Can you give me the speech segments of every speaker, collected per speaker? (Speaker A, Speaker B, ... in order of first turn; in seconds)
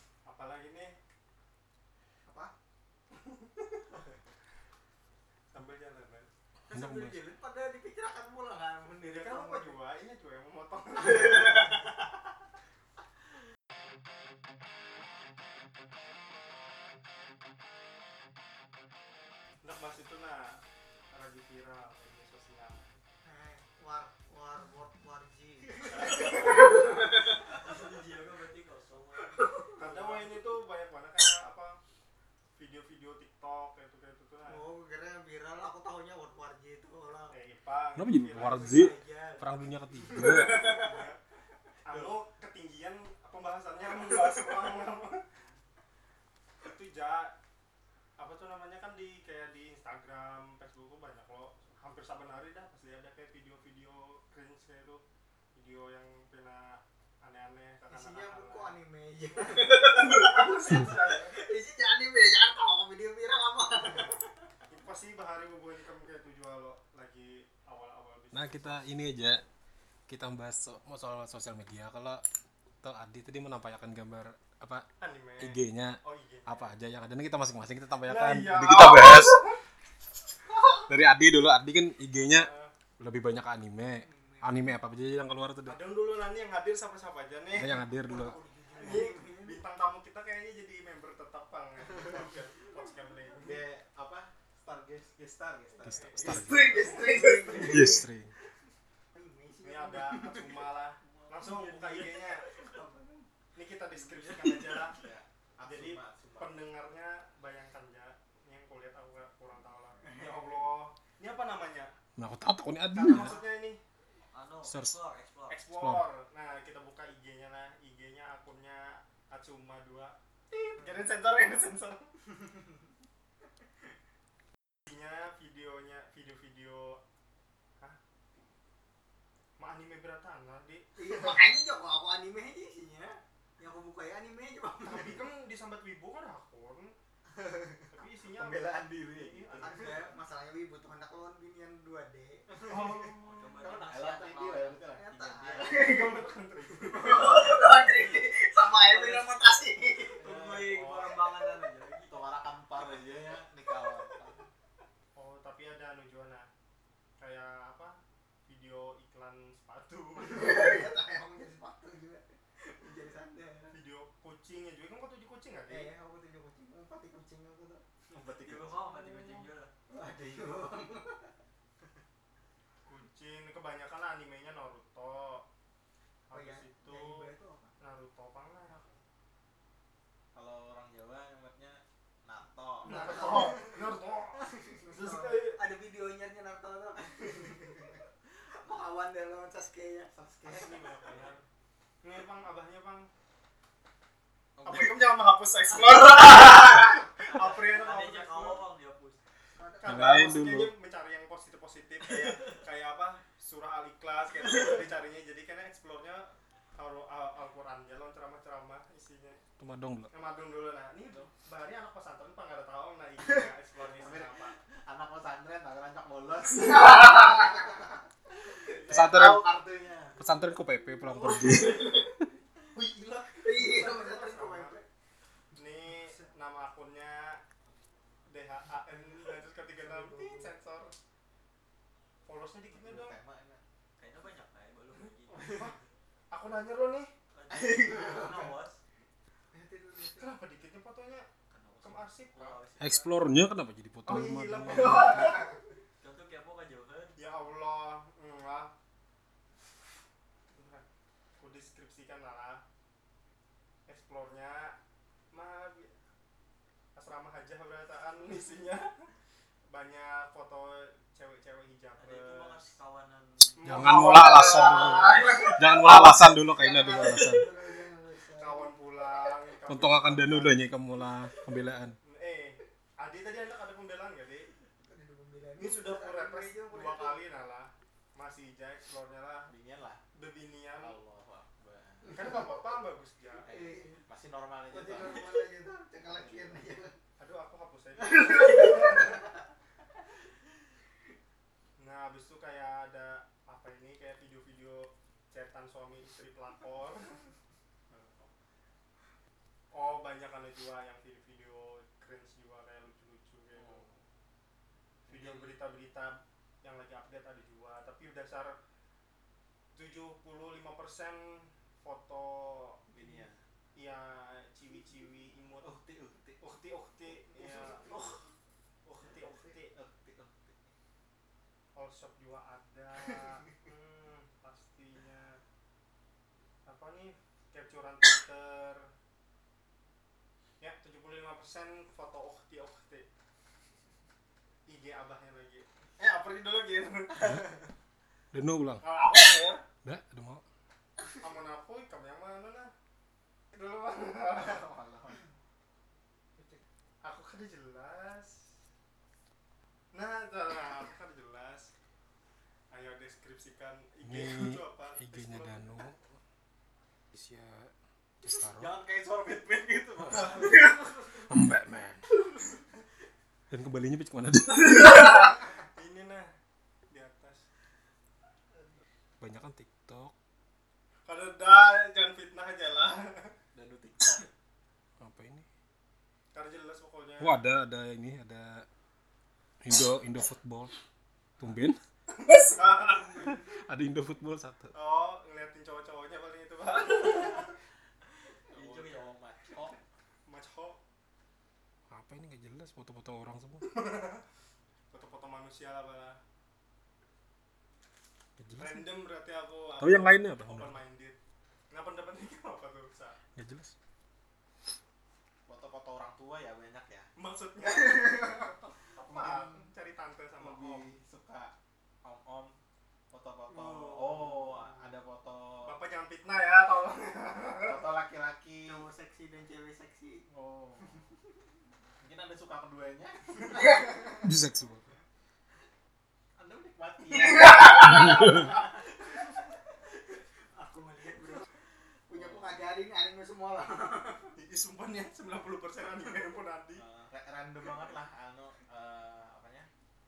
Speaker A: 0.2-1.0, 3.2-3.5, 5.5-6.3, 9.0-11.8, 19.6-22.9, 25.9-26.4, 29.8-31.8, 32.6-34.6, 37.3-39.3, 40.4-41.2, 41.8-45.4, 46.6-47.4, 48.2-55.0, 55.5-58.8, 59.4-61.5, 64.7-68.9, 75.0-76.7, 78.0-79.6, 82.3-82.7, 85.6-87.9, 88.8-93.6, 95.8-97.2, 99.6-102.5, 103.5-105.0, 105.6-111.9, 112.9-113.8, 115.5-122.1, 124.8-127.0, 129.6-131.3, 134.8-136.9, 137.9-140.1, 142.7-143.4, 145.6-147.4, 155.2-156.5, 157.2-160.8, 163.7-165.9, 172.8-175.4, 176.3-177.3, 177.8-179.0, 182.8-185.6, 190.4-191.4, 192.0-193.1, 194.6-198.6, 199.8-209.4, 210.1-214.6, 222.8-224.8, 225.5-227.4, 228.3-230.9, 232.2-233.2, 235.5-235.8, 236.3-237.1, 240.0-241.3, 241.8-242.6, 244.0-245.4, 247.2-248.7, 250.5-250.8, 251.4-252.6, 253.9-254.8, 255.3-256.0, 256.9-259.1, 259.7-262.6, 263.6-265.1, 268.3-270.7, 272.0-274.5, 275.6-279.5, 280.1-281.0, 282.1-283.5, 287.2-289.2, 291.8-297.3, 299.7-304.0, 305.1-308.6, 309.7-312.8, 313.7-315.7, 316.4-318.1, 318.8-319.8, 321.7-325.4, 326.6-328.9, 330.6-333.1, 334.7-337.7, 338.8-339.6, 341.2-342.7, 343.5-344.7, 347.0-348.4, 349.9-351.7, 352.7-355.9, 360.1-361.2, 365.6-366.3, 366.9-367.4, 371.1-373.3, 376.3-377.4, 382.1-383.4, 384.7-387.5, 390.3-390.8, 393.6-394.2, 394.9-396.2, 398.6-401.1, 401.7-403.2, 407.2-410.9, 415.6-417.8, 434.3-436.8
Speaker B: 2.2-2.5, 6.7-9.8, 23.2-27.6, 29.3-29.7, 34.5-37.3, 38.4-41.0, 57.9-64.5, 84.0-84.7, 88.0-89.6, 96.2-98.0, 99.1-100.7, 102.5-103.3, 110.0-110.5, 130.9-135.2, 139.6-142.6, 144.9-146.2, 146.8-150.2, 160.2-163.7, 165.7-167.8, 168.9-171.3, 176.3-177.7, 182.8-183.9, 184.4-190.1, 199.5-200.4, 216.9-217.5, 221.3-222.1, 223.3-224.8, 229.8-230.5, 237.8-238.4, 239.5-240.3, 264.2-268.8, 274.8-277.2, 283.5-284.0, 284.7-286.9, 288.5-289.2, 312.9-313.2, 317.3-318.2, 413.6-414.2, 418.6-420.2, 423.5-424.2, 427.5-428.6, 430.5-431.5, 432.1-434.3
Speaker C: 6.7-7.2, 38.0-40.8, 68.3-69.4, 70.1-72.2, 72.8-74.8, 75.4-79.5, 80.9-85.8, 87.5-88.4, 95.8-98.3, 112.2-113.4, 114.6-115.0, 115.7-116.0, 199.8-200.7, 209.6-210.1, 218.8-219.4, 220.2-222.3, 242.8-245.4, 263.6-267.5, 269.6-272.0, 338.3-338.9, 339.8-340.4, 354.0-356.1, 357.1-357.7, 358.2-358.8, 360.1-360.4, 361.3-362.0, 363.5-365.4, 369.2-370.1, 375.0-375.4, 377.2-378.6, 379.6-380.7, 381.4-381.8, 383.1-384.7, 391.9-393.7, 398.4-398.8, 399.8-400.8, 403.4-403.7, 424.2-424.8, 427.9-428.4
Speaker D: 26.1-30.5, 101.1-102.2, 104.0-104.8, 114.3-115.6, 143.2-145.9, 147.3-148.2, 148.8-149.6, 150.2-152.2, 168.4-169.7, 197.3-199.2, 202.2-202.5, 234.0-235.8, 237.3-238.8, 241.5-243.1, 246.0-247.2, 262.0-264.4, 264.9-265.5, 388.5-389.2
Speaker E: 41.9-42.2, 93.4-97.0, 105.0-106.6, 137.4-137.7, 138.3-140.1, 142.6-146.0, 150.1-154.5, 168.1-168.8, 170.2-170.6, 180.3-183.7, 190.1-191.3, 194.6-195.0, 213.9-220.2, 232.7-233.6, 235.3-235.7, 237.5-238.3, 279.5-280.0, 280.8-282.4, 283.4-285.3, 286.0-286.7, 297.9-298.3, 303.5-303.9, 305.1-305.6, 312.9-313.4, 315.6-316.4, 319.7-320.7, 344.4-345.2, 358.6-360.6, 373.5-374.3, 388.5-389.8, 405.5-407.1, 409.0-409.7, 410.4-411.5, 412.0-412.6, 413.1-415.8, 417.6-418.9, 420.3-421.1, 422.0-423.6, 426.4-428.3, 432.1-432.7, 436.8-439.7